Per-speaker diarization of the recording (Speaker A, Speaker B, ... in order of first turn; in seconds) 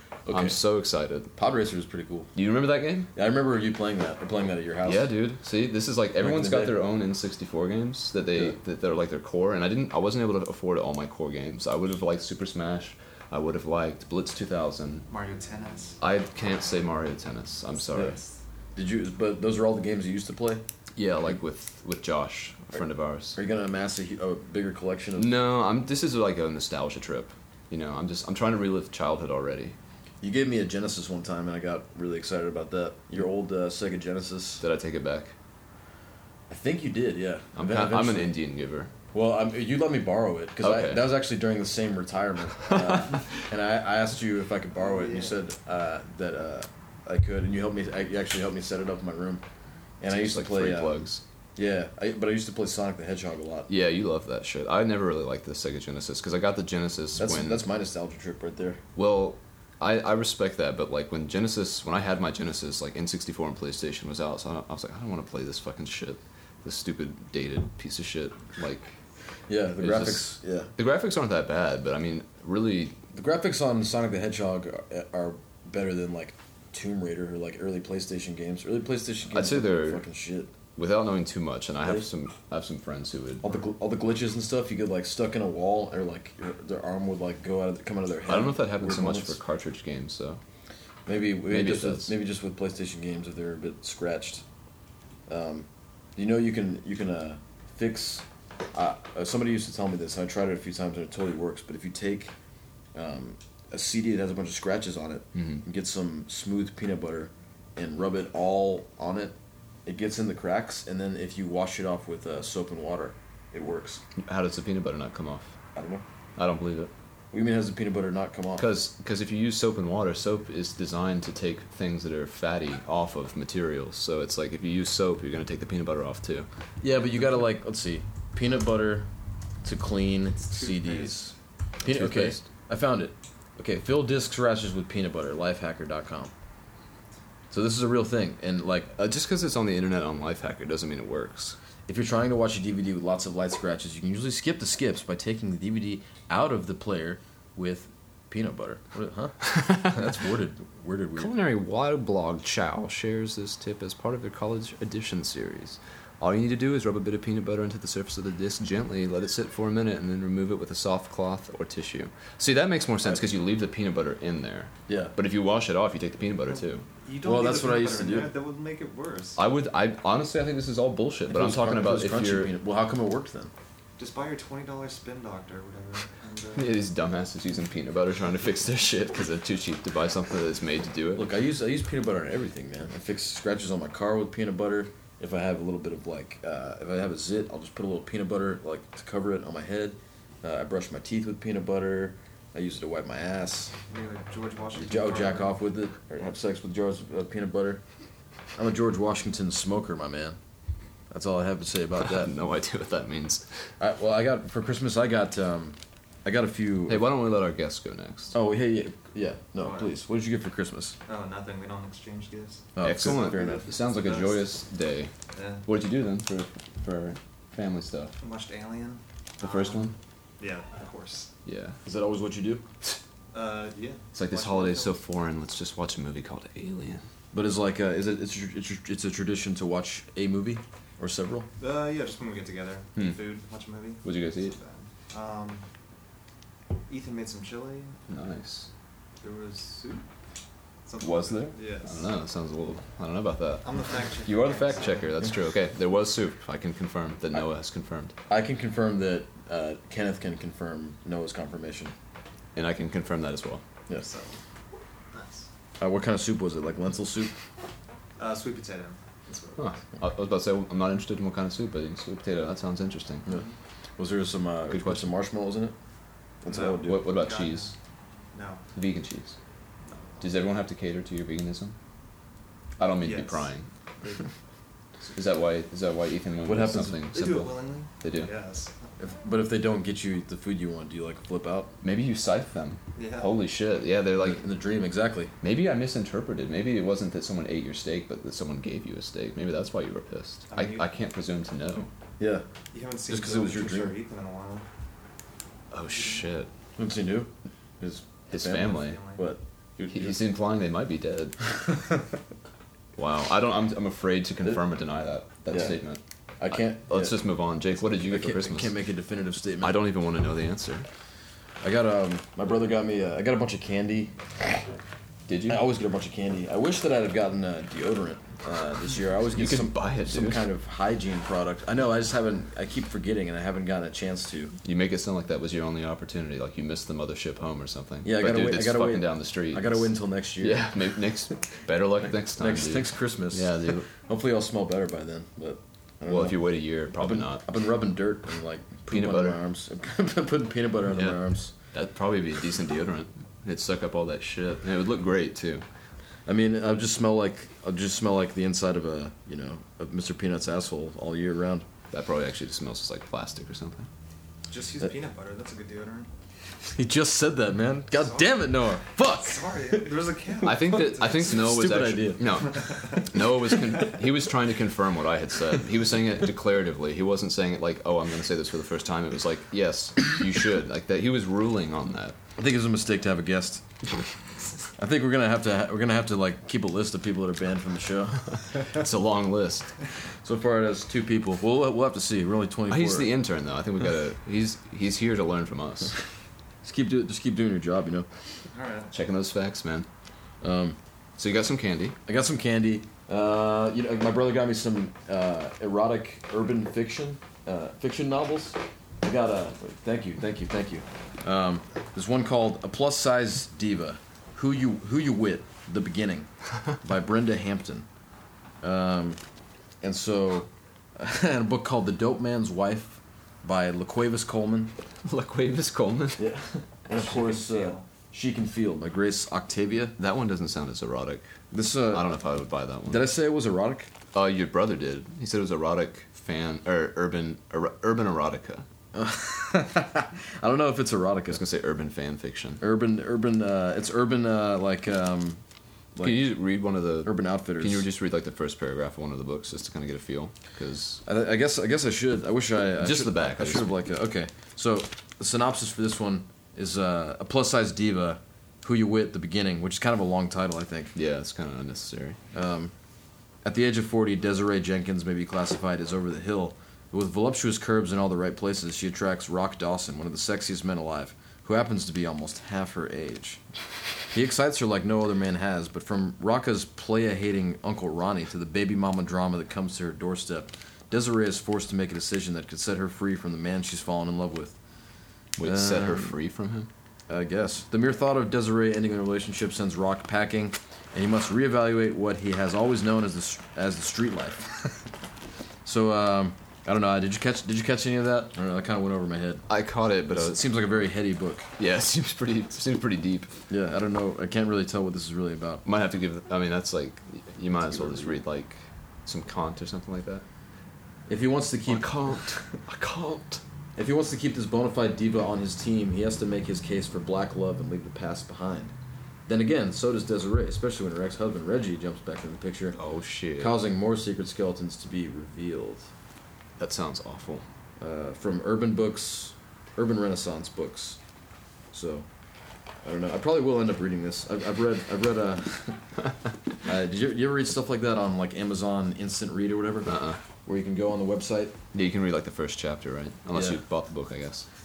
Speaker A: 0.2-0.6, 1.3-2.3, 3.1-5.1, 6.2-6.8, 18.7-20.6, 23.3-25.3, 30.2-34.6, 36.5-38.3, 39.1-49.4, 50.0-51.0, 51.5-53.7, 57.2-58.8, 69.5-70.7, 73.1-80.5, 83.4-89.3, 91.1-94.4, 95.3-102.3, 102.9-109.3, 109.8-114.0, 115.7-116.0, 117.3-118.7, 126.8-129.1, 129.6-136.3, 137.5-138.9, 141.9-151.3, 164.9-165.1, 167.2-168.3, 171.3-173.5, 181.2-193.7, 194.7-197.8, 198.6-200.4, 201.1-202.3, 203.8-207.1, 208.3-210.9, 212.8-213.7, 221.8-222.6, 227.3-231.5, 248.3-251.9, 255.8-257.3, 264.0-265.7, 266.4-267.1, 276.4-277.0, 279.0-281.7, 284.1-285.3, 292.2-292.4, 293.1-293.9, 296.8-300.1, 305.5-305.8, 306.4-307.2, 308.0-309.8, 311.6-314.6, 315.5-324.5, 328.0-331.4, 332.4-336.4, 337.0-341.5, 346.2-351.6, 356.7-359.8, 361.2-363.0, 372.4-373.6, 374.8-378.5, 380.2-383.1, 386.6-388.1, 390.4-390.8, 392.1-406.3, 406.8-407.9, 408.6-409.2, 409.8-414.7, 416.2-419.9, 421.5-422.2, 422.9-423.9, 428.9-431.4, 432.6-435.4, 435.9-436.3, 437.0-437.8, 441.0-450.9, 452.3-452.7, 453.4-463.4, 464.1-474.6, 475.4-476.1, 477.1-484.8, 485.6-489.4, 490.1-491.5, 493.5-495.6, 497.7-498.2, 501.1-502.2, 503.8-508.7, 509.3-512.8, 513.4-515.9, 517.8-521.0, 521.7-522.0, 522.8-525.8, 526.6-531.6, 533.3-533.6
Speaker B: 0.3-1.3, 2.3-3.1, 4.8-15.1, 16.0-18.2, 20.9-23.4, 25.2-29.8, 34.6-35.3, 37.5-38.9, 40.6-41.0, 42.6-43.2, 50.1-51.2, 53.7-57.6, 59.0-69.0, 69.8-73.0, 79.3-80.0, 80.8-83.5, 88.3-90.4, 91.5-92.1, 105.3-105.6, 114.2-115.5, 116.3-116.9, 118.6-126.5, 131.9-132.4, 139.0-141.6, 151.2-166.8, 169.4-172.5, 176.6-181.3, 202.0-203.4, 206.9-208.3, 212.8-215.1, 215.7-218.1, 219.4-219.9, 221.4-221.8, 224.1-227.0, 234.0-234.5, 238.1-238.7, 241.0-248.1, 252.5-253.6, 259.6-263.2, 264.7-265.1, 266.8-267.7, 268.7-269.4, 270.2-271.8, 272.8-273.6, 275.1-278.3, 281.8-284.4, 285.4-291.9, 295.7-296.5, 298.3-299.0, 299.8-301.4, 302.9-306.0, 306.5-308.7, 309.6-310.9, 315.3-315.6, 319.3-320.4, 324.6-333.9, 336.0-337.4, 338.9-339.4, 341.7-345.6, 351.9-353.9, 360.4-372.1, 378.7-379.7, 382.7-385.9, 388.9-389.9, 391.2-391.9, 415.0-416.3, 420.0-421.2, 421.9-423.1, 424.1-428.6, 431.3-432.6, 436.0-441.0, 442.8-443.7, 450.9-452.2, 475.4-476.7, 489.5-490.4, 491.6-493.3, 495.6-500.2, 501.7-503.4, 512.8-513.5, 516.6-517.4, 529.9-530.2, 531.7-534.5
Speaker C: 15.1-16.0, 44.8-45.4, 130.4-131.2, 167.0-169.4, 174.0-176.7, 193.9-195.6, 209.6-209.9, 211.1-214.4, 215.3-215.7, 218.2-221.3, 223.3-225.0, 231.6-235.6, 236.9-238.0, 239.2-240.1, 240.8-242.1, 243.6-245.2, 253.9-254.3, 255.1-255.5, 258.2-259.7, 263.2-263.5, 266.5-267.7, 268.3-268.6, 269.9-270.3, 272.8-274.3, 277.1-278.9, 282.9-283.4, 290.5-290.8, 292.7-294.6, 295.9-296.2, 298.5-299.2, 354.5-356.1, 357.9-361.6, 362.3-363.0, 388.5-388.9, 416.9-417.9